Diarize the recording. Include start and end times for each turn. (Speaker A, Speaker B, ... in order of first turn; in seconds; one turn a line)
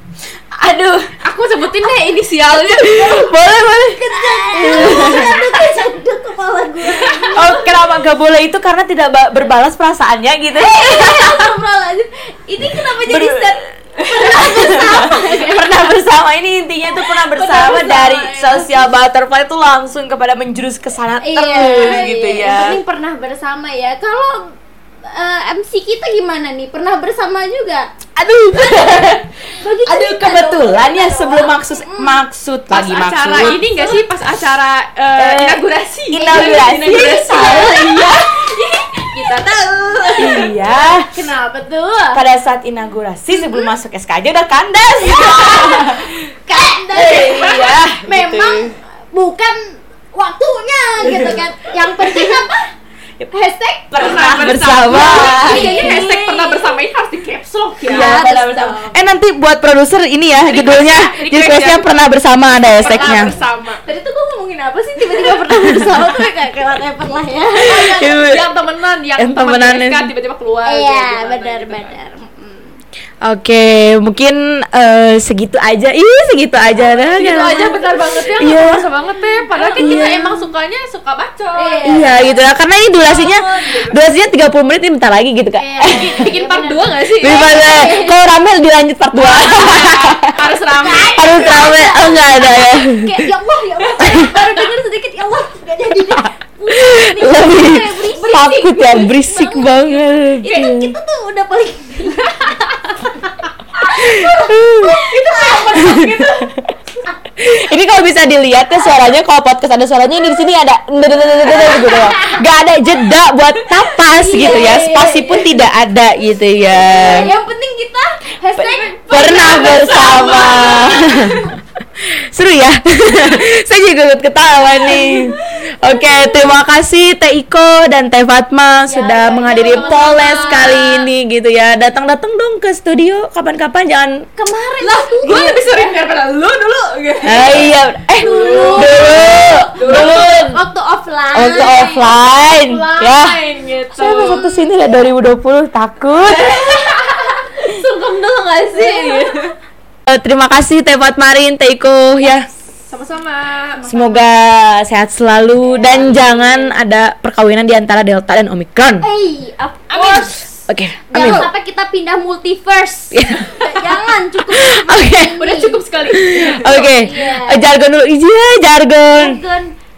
Speaker A: 0.6-1.1
Speaker B: 1.2-3.0
Speaker A: 2.7-5.3
Speaker C: 3.0-7.8
Speaker B: 4.5-5.3
Speaker B: 6.8-7.4
Speaker A: 7.3-11.4
Speaker C: 10.5-16.0
Speaker A: 13.1-22.8
Speaker C: 16.9-18.9
Speaker C: 21.2-27.9
Speaker A: 28.2-33.6
Speaker C: 28.5-32.2
Speaker B: 32.7-40.5
Speaker C: 33.4-34.0
Speaker A: 35.2-38.1
Speaker C: 36.2-42.2
Speaker A: 40.2-41.1
Speaker A: 42.1-46.4
Speaker C: 43.3-43.7
Speaker C: 45.0-52.7
Speaker A: 46.9-48.8
Speaker A: 51.0-51.4
Speaker C: 53.3-54.1
Speaker A: 53.9-56.0
Speaker B: 54.0-58.1
Speaker C: 54.9-56.8
Speaker C: 57.9-59.0
Speaker A: 57.9-63.3
Speaker B: 60.4-61.9
Speaker C: 62.8-68.1
Speaker B: 62.8-63.8
Speaker A: 65.5-66.0
Speaker A: 67.7-68.4
Speaker B: 67.7-71.9
Speaker A: 69.2-70.1
Speaker C: 70.7-72.8
Speaker A: 73.2-78.8
Speaker C: 76.9-77.9
Speaker B: 77.2-81.9
Speaker C: 79.0-80.5
Speaker A: 79.8-80.3
Speaker C: 81.5-82.4
Speaker A: 81.9-86.3
Speaker C: 83.1-83.9
Speaker C: 85.6-88.2
Speaker B: 85.9-87.5
Speaker A: 87.2-90.4
Speaker B: 89.2-91.5
Speaker C: 90.7-106.0
Speaker A: 91.2-93.3
Speaker B: 93.8-94.6
Speaker A: 94.0-94.3
Speaker A: 96.2-100.9
Speaker B: 98.1-99.1
Speaker B: 102.2-102.5
Speaker A: 103.9-105.0
Speaker B: 104.9-106.5
Speaker A: 105.8-106.7
Speaker C: 107.0-107.6
Speaker A: 107.4-117.3
Speaker C: 110.2-110.5
Speaker C: 111.1-112.5
Speaker C: 114.1-115.5
Speaker C: 116.7-121.5
Speaker A: 118.6-121.4
Speaker B: 118.8-121.3
Speaker A: 122.0-134.3
Speaker C: 124.6-126.5
Speaker C: 128.9-130.9
Speaker B: 129.4-131.0
Speaker C: 134.4-135.9
Speaker B: 134.8-140.4
Speaker A: 137.2-140.6
Speaker C: 138.2-142.2
Speaker A: 141.3-143.4
Speaker B: 141.5-144.4
Speaker A: 143.9-146.5
Speaker C: 144.2-144.7
Speaker B: 146.2-149.5
Speaker C: 146.5-147.5
Speaker C: 148.7-149.5
Speaker A: 150.1-152.5
Speaker C: 152.2-152.9
Speaker B: 152.9-153.8
Speaker C: 153.7-154.3
Speaker A: 153.9-159.1
Speaker C: 155.6-156.7
Speaker C: 159.0-165.8
Speaker B: 159.9-160.4
Speaker A: 160.7-161.5
Speaker A: 163.1-165.4
Speaker B: 165.4-167.2
Speaker A: 166.1-169.4
Speaker C: 166.6-167.6
Speaker C: 169.2-169.7